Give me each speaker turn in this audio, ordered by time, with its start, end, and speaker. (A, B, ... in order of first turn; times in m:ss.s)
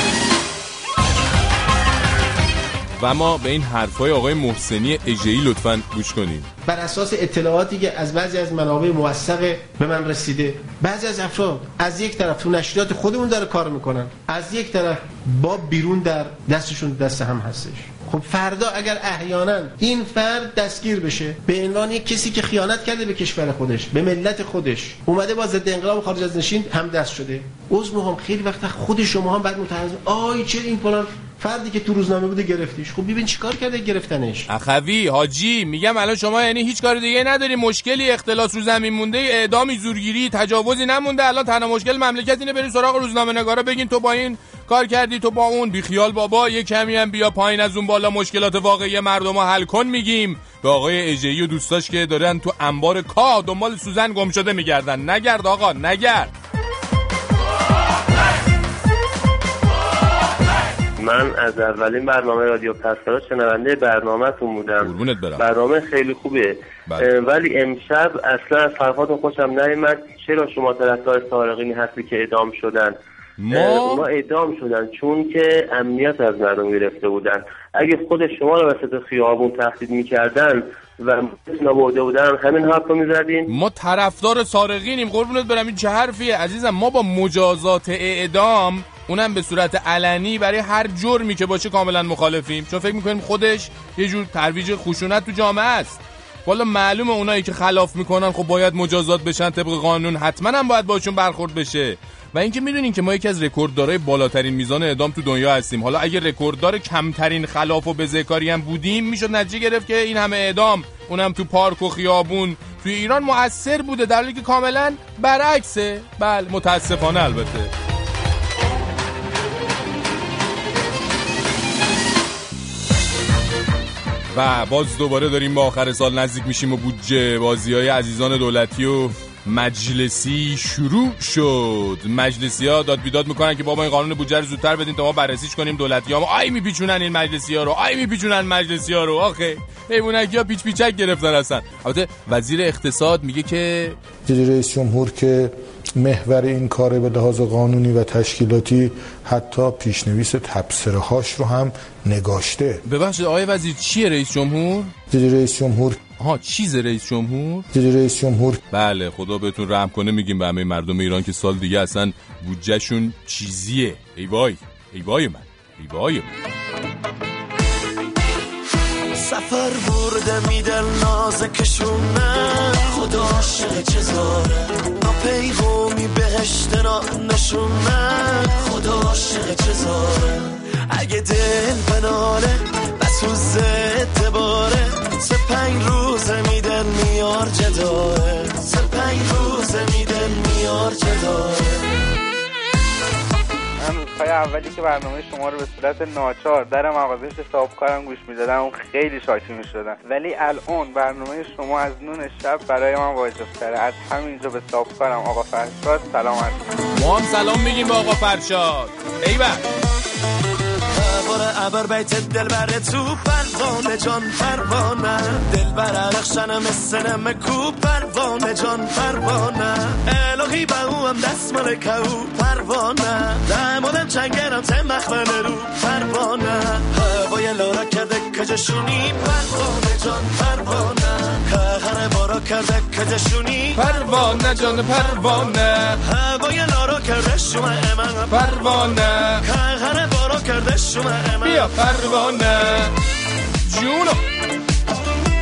0:03.0-0:06.5 A
0:06.7-0:34.5 B
0:34.5-0:56.3 A
1:01.0-1:12.9 C
1:04.8-1:05.4 A
1:13.4-1:14.1 A
1:13.5-1:23.5 C
1:23.5-1:57.7 A
2:04.3-2:24.0 A
2:24.2-2:32.8 D
2:32.8-2:34.9 A
2:35.1-2:36.0 D
2:36.2-2:37.7 A
2:37.7-2:38.6 D
2:38.7-2:46.3 A
2:49.2-3:11.9 E
3:13.8-3:26.6 F
3:26.9-3:29.6 A
3:30.9-3:55.3 E
3:53.7-3:56.0 A
3:56.0-4:01.7 E
3:58.3-3:59.4 A
4:01.4-4:02.9 A
4:03.6-4:04.2 A